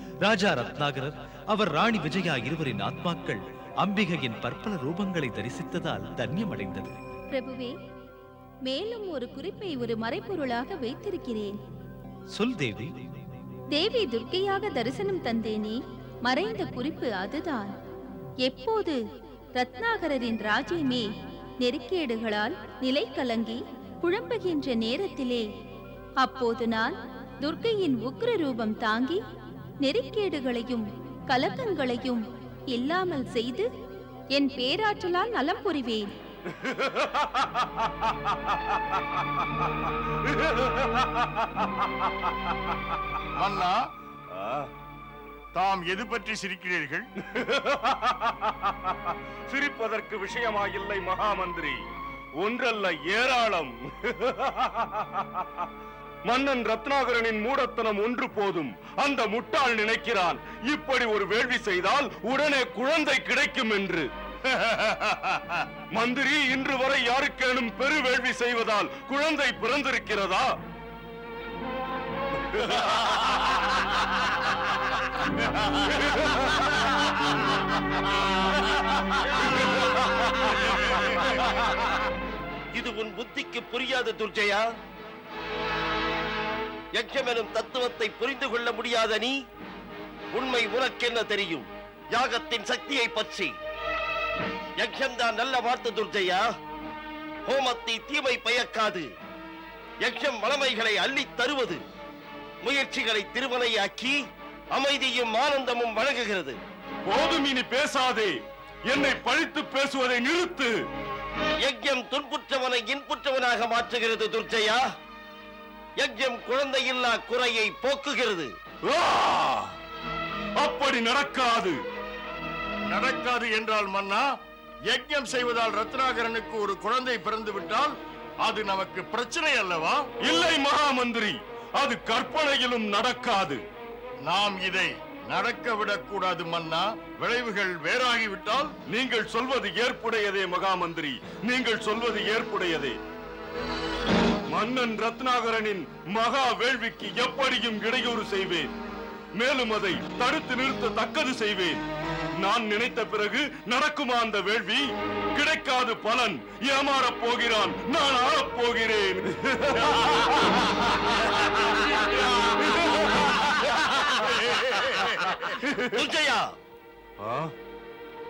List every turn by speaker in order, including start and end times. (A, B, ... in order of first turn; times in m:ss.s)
0:00.2-0:07.0 A
0:07.3-0:07.7 B
0:08.6-0:11.6 B
0:12.3-0:12.9 A
0:13.7-0:17.7 B
0:18.4-0:19.0 B
0:19.5-0:21.1 B
0:21.6-0:25.5 B
0:26.2-0:29.2 B
0:29.8-0:33.7 B
0:34.3-0:36.1 B
0:43.4-0:43.8 C
0:44.4-0:44.7 D
0:45.5-0:47.1 C
0:47.3-0:51.8 D
0:52.4-0:55.7 D
0:56.2-1:04.1 D
1:05.9-1:10.5 D
1:12.5-1:13.1 D
1:22.7-1:24.6 E
1:26.9-1:29.3 E
1:30.3-1:33.5 E
1:34.8-1:36.4 E
1:37.5-1:39.1 E
1:40.0-1:41.8 E
1:42.6-1:44.2 E
1:44.7-1:46.6 E
1:47.0-1:48.3 D
1:48.9-1:50.7 D
1:51.6-1:54.8 E
1:56.0-1:58.5 E
1:58.9-1:59.7 D
2:00.6-2:01.8 D
2:02.9-2:04.2 C
2:04.9-2:10.0 C
2:10.2-2:13.6 D
2:14.2-2:18.7 C
2:18.9-2:23.0 D
2:24.5-2:28.7 D
2:29.4-2:31.8 D
2:32.4-2:34.8 D
2:35.3-2:40.4 D
2:41.7-2:45.7 D
2:44.6-2:45.1 E
2:45.8-2:46.5 E
2:47.2-2:47.5 D